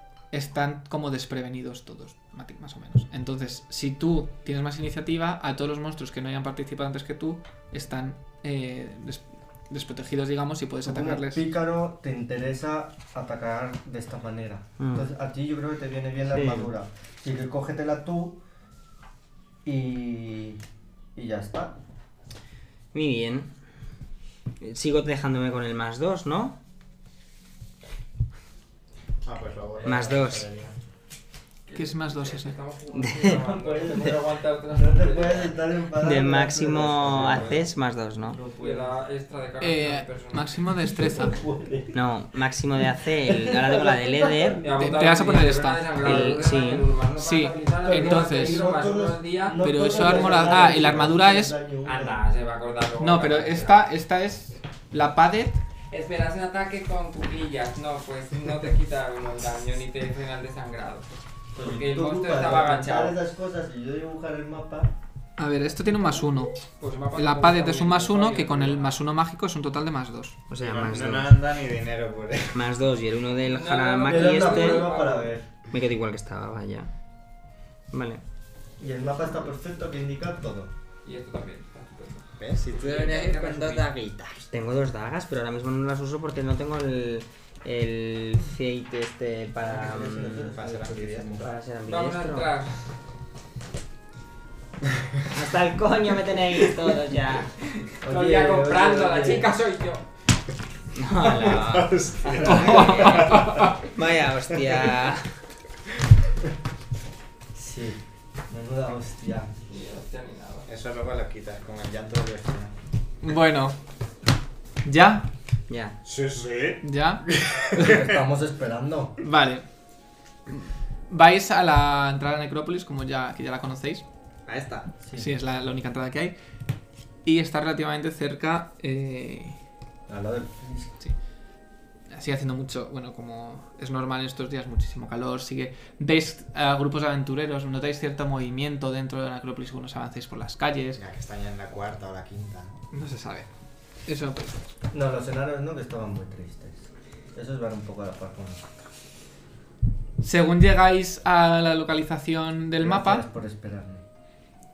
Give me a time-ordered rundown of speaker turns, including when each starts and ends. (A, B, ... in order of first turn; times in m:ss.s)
0:00.3-0:11.4 A
0:10.8-0:18.4 B
0:14.8-0:15.1 C
0:16.3-0:16.7 C
0:19.6-0:20.6 B
0:21.2-0:21.8 B
0:22.9-0:23.5 C
0:24.6-0:26.6 C
0:29.2-0:30.8 D
0:29.8-0:30.5 C
0:31.7-0:35.6 E
0:31.7-0:32.6 A
0:32.9-0:33.5 C
0:33.3-0:37.7 B
0:36.0-0:38.4 C
0:37.0-0:37.6 D
0:38.2-0:39.0 B
0:38.6-0:40.6 E
0:39.6-0:41.4 A
0:41.0-0:42.0 B
0:41.9-0:44.7 C
0:43.2-0:44.8 B
0:44.6-0:51.0 E
0:44.8-0:46.1 A
0:46.0-0:46.9 C
0:47.2-0:48.7 A
0:47.8-0:52.2 B
0:49.6-0:51.6 A
0:51.8-0:53.9 E
0:53.0-0:55.6 A
0:55.9-1:03.2 E
1:01.6-1:04.9 B
1:05.4-1:06.6 A
1:06.6-1:09.0 E
1:07.1-1:10.4 A
1:10.5-1:11.3 C
1:10.6-1:12.6 D
1:12.5-1:14.9 C
1:13.4-1:15.4 E
1:14.1-1:15.4 B
1:15.7-1:16.9 C
1:17.9-1:18.2 C
1:18.8-1:20.7 B
1:21.0-1:23.9 E
1:22.4-1:24.5 D
1:24.5-1:30.5 C
1:29.6-1:31.5 B
1:30.4-1:31.4 D
1:31.4-1:32.5 C
1:31.8-1:32.9 E
1:35.3-1:37.5 C
1:37.6-1:40.1 E
1:38.0-1:39.5 B
1:41.0-1:45.3 C
1:41.2-1:43.7 D
1:42.4-1:42.8 B
1:42.4-1:43.8 E
1:42.4-1:43.4 A
1:44.6-1:45.0 D
1:47.5-1:49.5 B
1:49.7-1:50.7 E
1:50.7-1:52.7 D
1:53.2-1:53.8 A
1:54.8-1:55.3 A
1:55.7-1:56.0 C
1:56.0-1:58.2 D
1:56.8-1:58.0 A
1:57.8-1:59.2 B
1:59.2-1:59.6 A
2:00.5-2:04.0 A
2:04.5-2:04.9 D
2:05.0-2:05.3 B
2:05.2-2:06.4 A
2:07.2-2:09.6 A
2:10.1-2:11.0 B
2:12.1-2:21.0 A
2:21.0-2:22.8 D
2:22.9-2:23.5 A
2:24.1-2:24.6 A
2:24.9-2:28.8 B
2:30.2-2:33.3 A
2:32.8-2:34.0 B